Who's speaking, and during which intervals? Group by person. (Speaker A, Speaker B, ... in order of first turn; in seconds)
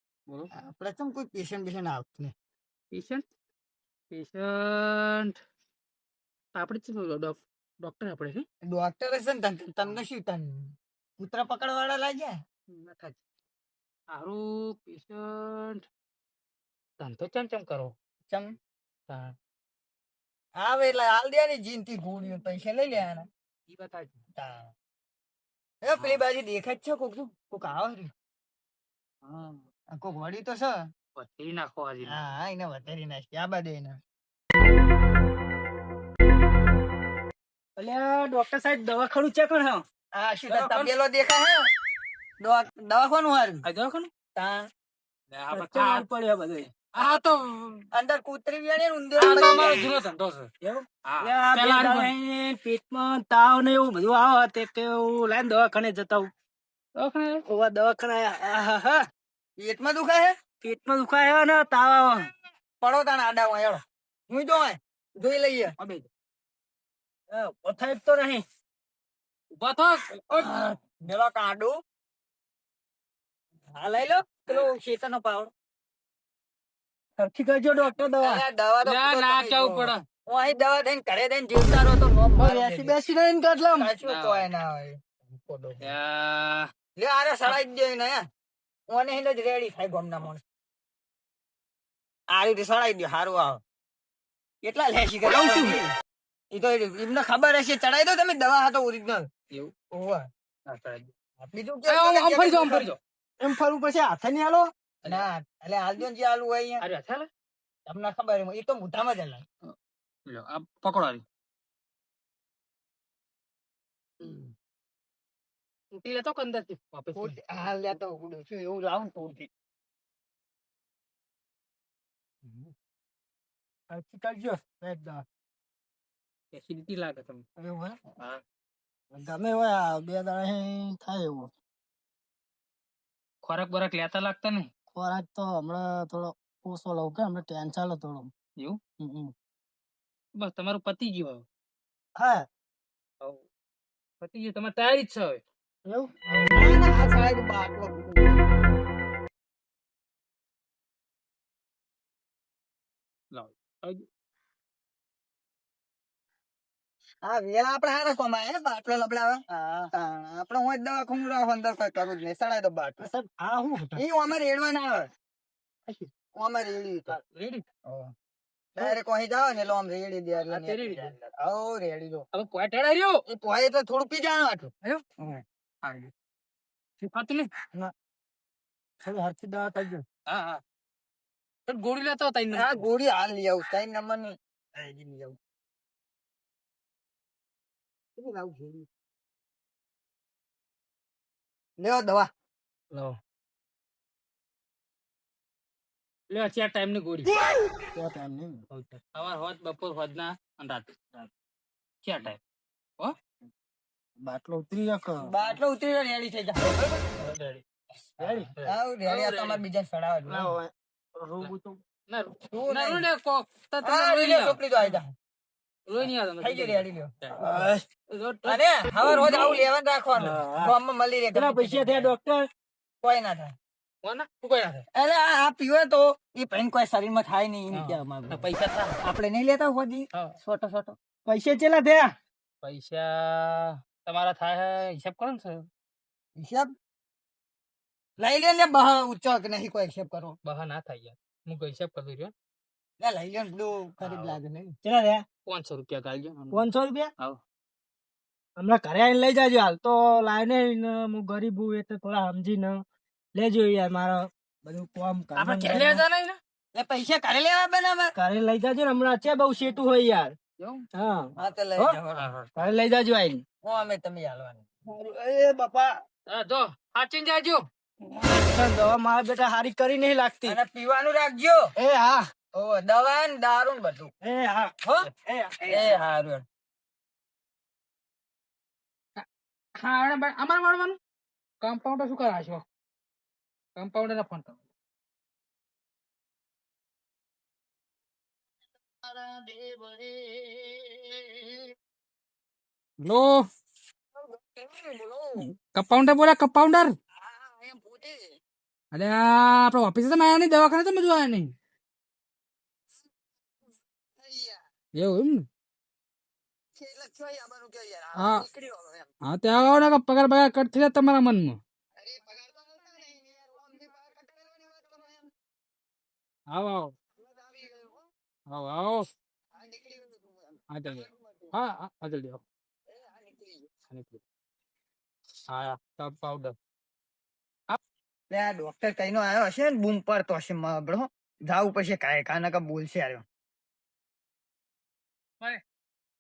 Speaker A: 0.5-2.3, 8.6-12.4, 18.3-18.6, 20.6-23.3, 24.4-24.7, 25.8-28.1, 29.9-30.9, 32.0-34.0, 40.1-41.7, 42.4-43.6, 44.3-44.7, 47.9-49.9, 59.6-60.4, 62.8-65.7, 70.3-71.8, 73.7-75.5, 78.2-83.0, 83.8-85.9, 87.0-88.3, 88.9-90.4, 92.3-93.6, 94.6-95.9, 96.5-99.3, 99.9-100.3, 101.4-102.9, 105.0-106.8, 107.9-109.4, 117.1-119.5, 127.6-128.0, 146.5-148.5, 157.2-163.1, 163.9-165.1, 166.3-167.2, 167.8-168.1, 168.8-172.2, 173.3-174.7, 182.5-185.4, 188.2-188.9, 191.8-192.3, 205.2-207.0, 208.6-210.5, 212.5-213.1, 213.8-215.1, 216.4-217.1, 218.4-222.1, 223.0-223.5, 224.9-228.4, 229.0-230.9, 236.3-236.7, 238.2-240.4, 243.0-244.8, 256.7-258.1, 261.4-262.3, 263.6-264.6, 270.4-271.7, 272.5-274.1, 275.6-276.4, 289.0-291.7, 294.1-295.4, 297.1-298.4, 304.2-304.6, 306.7-309.1, 312.0-315.3, 317.2-318.0, 319.5-321.5, 322.9-323.7, 328.3-333.2
Speaker B: 2.9-3.2, 4.1-5.4, 6.5-8.4, 12.7-13.2, 14.1-15.8, 17.0-17.9, 19.1-19.3, 23.7-24.1, 31.1-32.3, 40.5-40.9, 43.6-44.1, 45.3-46.1, 46.9-47.8, 49.2-50.5, 51.0-52.1, 57.0-57.4, 69.6-70.6, 78.8-80.0, 84.0-84.5, 85.8-86.7, 95.2-95.9, 100.7-101.1, 101.9-103.0, 106.8-107.3, 110.3-111.2, 114.2-114.5, 115.9-117.4, 122.4-122.7, 126.5-127.4, 133.4-134.7, 140.4-141.4, 144.2-145.4, 146.3-146.6, 153.3-154.1, 167.1-167.6, 170.5-171.1, 172.3-173.2, 175.8-176.1, 177.0-177.5, 180.3-180.6, 181.7-182.8, 196.3-197.3, 198.7-200.9, 202.0-202.4, 207.2-207.6, 208.2-209.6, 212.1-215.0, 215.9-219.4, 224.0-224.8, 227.7-229.0, 232.6-235.7, 240.4-242.3, 245.5-247.4, 255.4-256.4, 260.6-260.8, 262.1-262.5, 266.3-267.6, 279.8-281.0, 281.6-282.6, 283.8-284.6, 293.0-293.4, 295.4-296.9, 298.9-301.5, 304.9-305.4, 308.1-308.4, 309.2-311.6, 316.5-316.9, 318.5-319.1, 320.7-322.4, 323.9-324.2, 325.5-326.6
Speaker C: 37.8-39.8, 45.5-46.8, 50.6-56.3, 57.4-59.0, 60.6-62.3, 67.3-68.4, 77.2-78.4, 82.3-83.9, 103.4-104.7, 123.9-125.2, 129.1-131.5, 134.9-138.3, 139.0-139.3, 142.2-142.4, 159.6-159.9, 163.0-164.0, 179.0-180.0, 197.9-198.6, 204.2-205.3, 208.2-208.5, 210.3-211.8, 217.4-217.8, 220.1-220.7, 221.3-222.5, 231.2-232.1, 244.8-245.2, 246.5-247.1, 248.6-252.8, 253.3-256.0, 258.1-260.4, 260.9-261.9, 262.5-263.4, 264.9-265.9, 268.1-270.6, 271.8-272.2, 274.2-275.9